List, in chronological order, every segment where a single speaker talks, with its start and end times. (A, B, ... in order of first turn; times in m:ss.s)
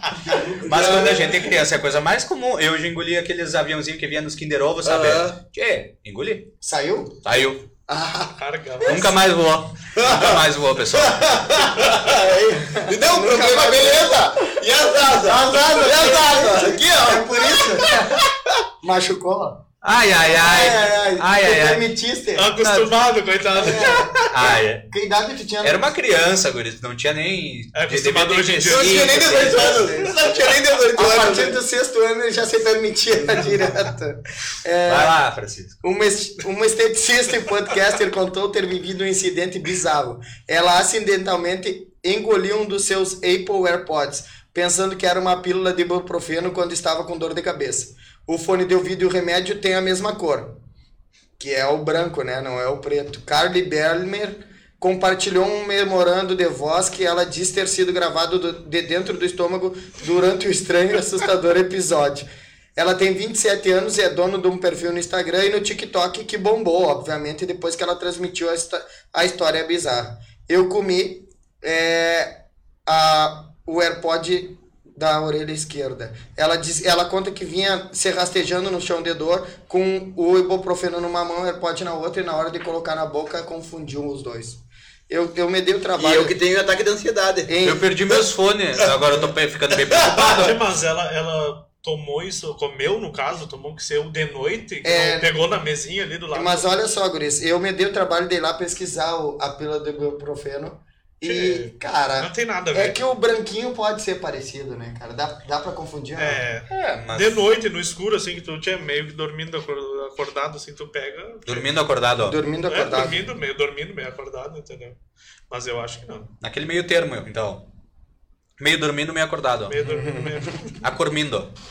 0:00.3-0:01.3 A
0:00.3-0:01.4 B
0:00.6-0:06.5 C
0:04.8-0:05.4 B
0:06.6-0:07.2 A
0:07.2-0:07.6 C
0:07.9-0:08.4 A
0:08.4-0:09.1 D
0:08.8-0:11.4 C
0:10.0-0:18.3 B
0:12.6-0:14.5 A
0:15.1-0:18.2 A
0:18.8-0:22.5 A
0:19.8-0:21.9 C
0:22.3-0:24.1 D
0:22.6-0:22.9 C
0:23.5-0:25.8 A
0:24.1-0:24.8 C
0:25.6-0:29.9 C
0:27.7-0:29.9 D
0:28.6-0:31.6 B
0:29.3-0:30.2 A
0:31.0-0:35.2 A
0:34.8-0:35.8 C
0:35.8-0:50.6 A
0:51.4-1:26.4 A
1:26.0-1:27.6 B
1:27.5-1:27.8 A
1:27.6-1:30.6 C
1:28.8-1:30.4 B
1:30.1-1:36.7 D
1:34.8-1:35.3 A
1:36.3-1:46.4 A
1:41.2-1:43.0 D
1:46.2-1:51.7 D
1:46.7-1:47.4 C
1:51.4-1:52.4 C
1:52.2-1:53.3 A
1:52.7-1:55.0 D
1:55.5-1:56.3 D
1:56.4-1:57.6 C
1:58.6-1:59.8 C
1:59.7-2:00.8 D
1:59.8-2:00.6 A
2:00.8-2:01.5 C